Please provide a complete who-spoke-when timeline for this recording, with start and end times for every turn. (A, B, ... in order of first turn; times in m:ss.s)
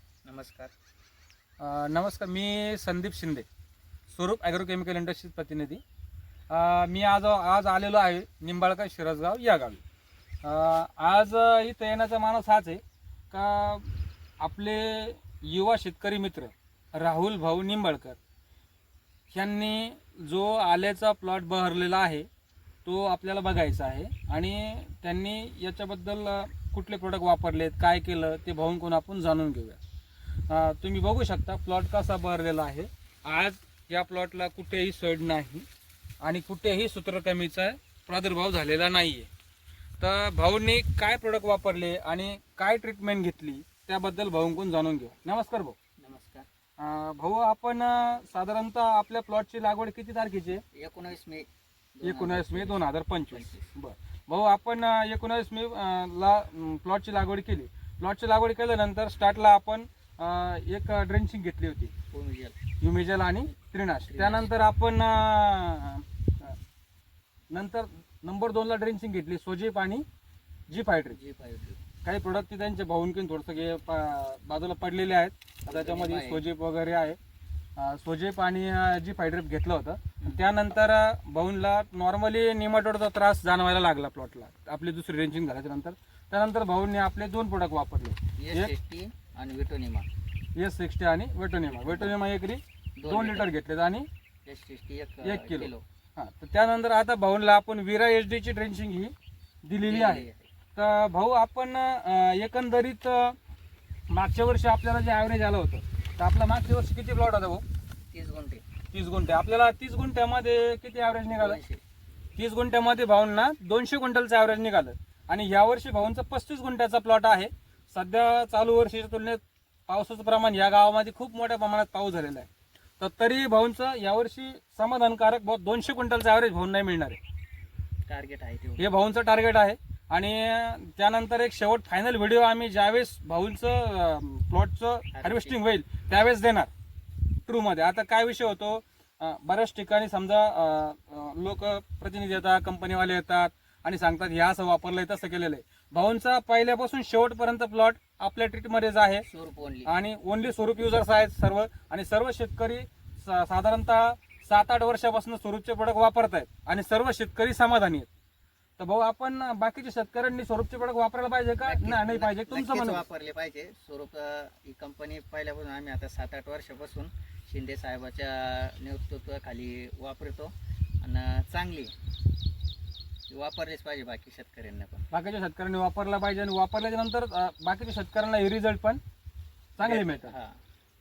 0:00.2-0:00.7 A
0:01.6-0:03.5 B
0:04.1-0:05.8 B
0:06.5-0:09.8 B
0:10.4-0:13.9 B
0:14.4-0:18.2 B
0:19.3-0:22.2 B
0:22.8-0:29.8 B
0:30.5-0:35.7 B
0:36.2-0:39.3 B
0:40.0-0:45.8 B
0:46.0-0:46.5 A
0:46.8-0:50.6 B
0:50.7-0:53.7 A
0:52.0-1:01.9 B
1:02.1-1:02.6 A
1:02.8-1:06.6 B
1:04.1-1:04.5 A
1:07.5-1:10.0 B
1:10.7-1:11.2 B
1:11.1-1:11.8 A
1:12.0-1:17.2 B
1:15.7-1:16.4 A
1:17.8-1:28.7 B
1:28.4-1:30.1 A
1:30.6-1:34.0 B
1:31.6-1:32.2 A
1:33.0-1:33.5 A
1:34.4-1:35.8 A
1:35.2-1:39.1 B
1:39.6-1:43.4 B
1:39.8-1:40.5 A
1:44.1-1:47.6 B
1:48.1-1:48.6 A
1:48.9-1:51.6 B
1:51.3-1:51.8 A
1:52.4-2:02.5 B
2:03.0-2:07.2 B
2:08.1-2:08.9 A
2:08.8-2:16.7 B
2:15.1-2:15.6 A
2:17.5-2:29.2 B
2:29.2-2:29.9 A
2:29.8-2:38.1 B
2:38.8-2:43.0 B
2:41.6-2:51.9 A
2:53.3-2:55.1 A
2:55.1-2:59.0 B
2:59.8-3:00.3 B
2:59.8-3:00.6 A